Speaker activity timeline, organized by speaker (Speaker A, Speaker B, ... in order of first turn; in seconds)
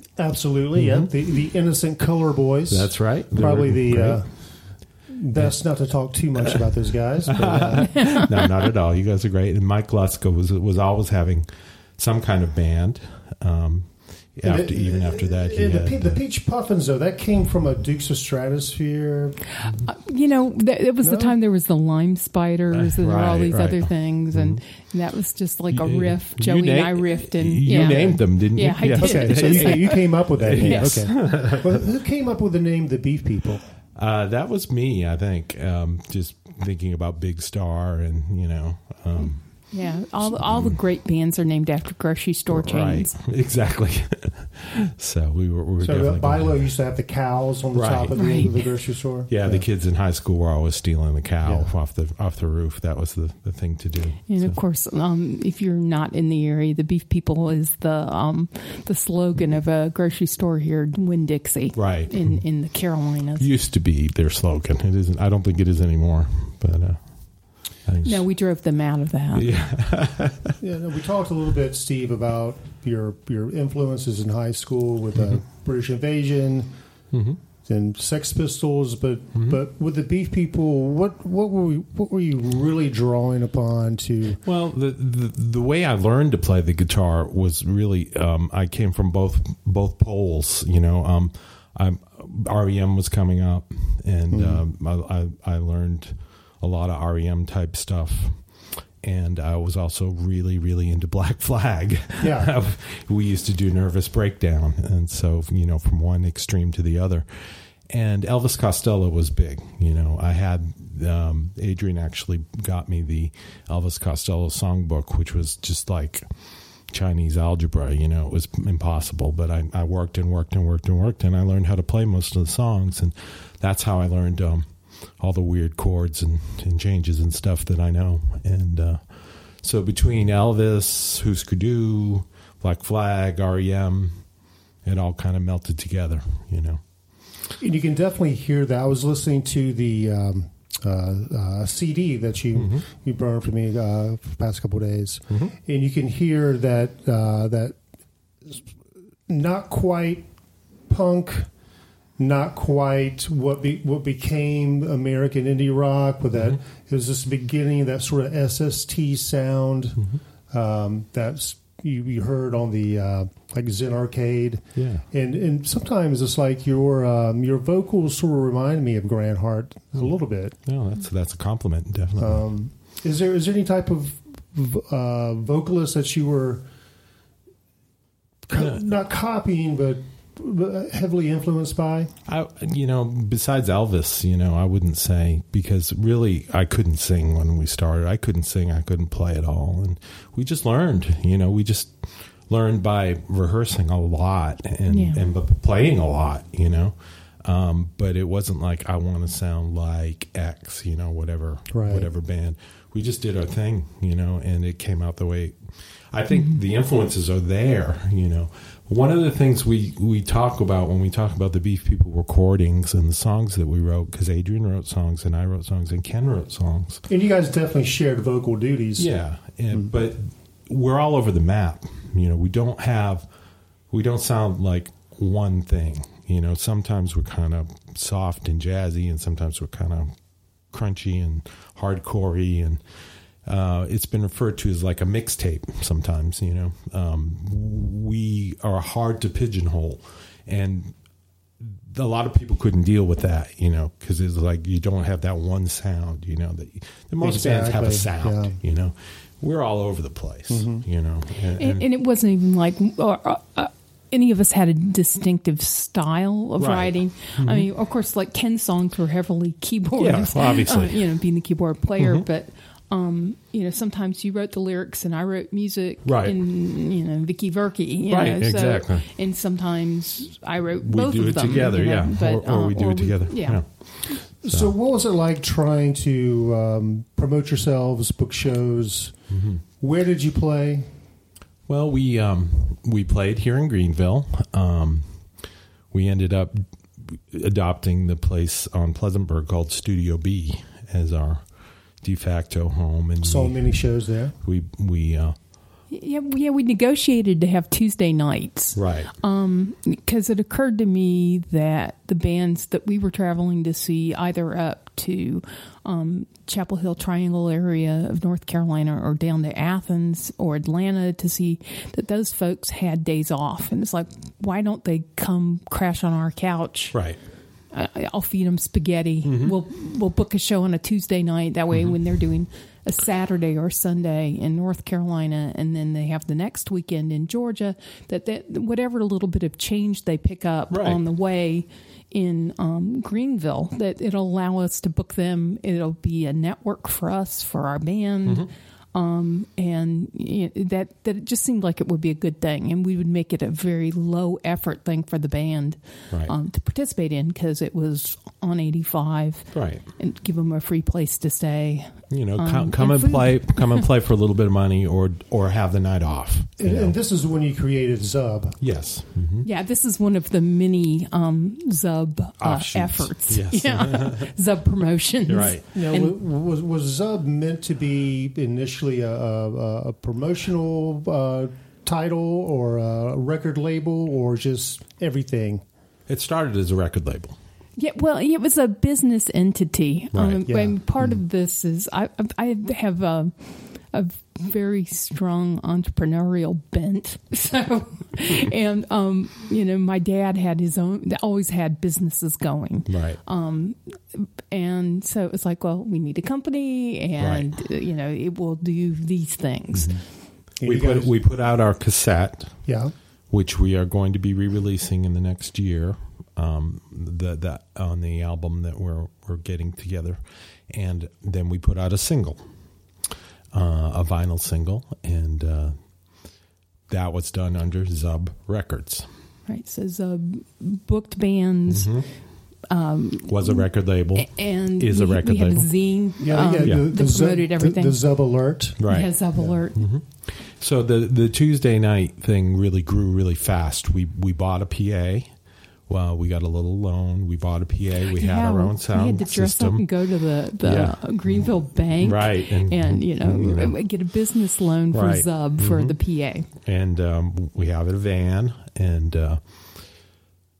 Speaker A: 0.2-8.3, 14.4-19.4, 21.0-21.3, 27.6-28.2, 28.9-33.7, 45.8-49.6, 51.4-51.7, 70.6-76.7, 77.6-84.4, 94.3-94.6, 102.2-102.5, 137.6-147.8, 149.3-150.3, 150.8-151.5, 152.2-170.6, 172.2-176.6, 178.5-182.1, 201.7-202.1, 217.1-219.1, 247.2-248.6, 250.5-250.8, 274.4-279.3, 279.8-280.9, 293.2-294.3, 356.6-358.6, 365.7-375.6, 380.4-381.2, 400.6-401.1, 402.6-402.9, 426.2-429.6
Speaker B: 0.7-1.1, 2.7-4.7, 5.3-6.6, 7.3-16.2, 22.7-24.6, 25.7-31.9, 34.0-40.8, 42.5-46.8, 47.7-48.7, 49.2-54.6, 61.7-62.8, 63.4-68.2, 69.3-70.6, 75.1-75.4, 77.1-77.4, 79.3-79.6, 84.4-137.4, 142.5-142.8, 156.3-156.6, 164.7-165.0, 169.9-172.5, 182.3-217.0, 219.0-223.3, 223.9-230.2, 230.7-241.0, 241.6-251.8, 256.6-257.7, 260.0-261.2, 262.0-262.2, 266.0-266.4, 268.1-269.1, 270.8-274.7, 279.3-279.6, 281.7-295.4, 298.7-299.1, 316.9-317.2, 319.2-319.6, 330.7-331.0, 338.2-338.5, 349.5-349.8, 352.1-356.9, 358.6-359.5, 362.4-364.3, 365.3-365.6, 376.1-377.4, 380.1-380.4, 392.9-393.2, 397.2-397.5, 399.7-402.8, 403.3-412.5, 413.5-416.4, 416.9-419.1, 421.7-422.3, 423.3-425.9, 428.8-429.2, 429.7-443.8, 444.9-446.0, 446.5-449.9
Speaker C: 7.9-8.2, 19.6-31.1, 39.2-43.1, 48.1-48.6, 54.3-63.5, 68.0-69.5, 194.9-195.2, 206.3-206.6, 251.6-273.6, 295.9-317.1, 317.7-353.8, 359.4-366.1, 377.8-400.0, 419.5-422.0, 422.7-428.0, 428.8-429.8, 438.1-446.5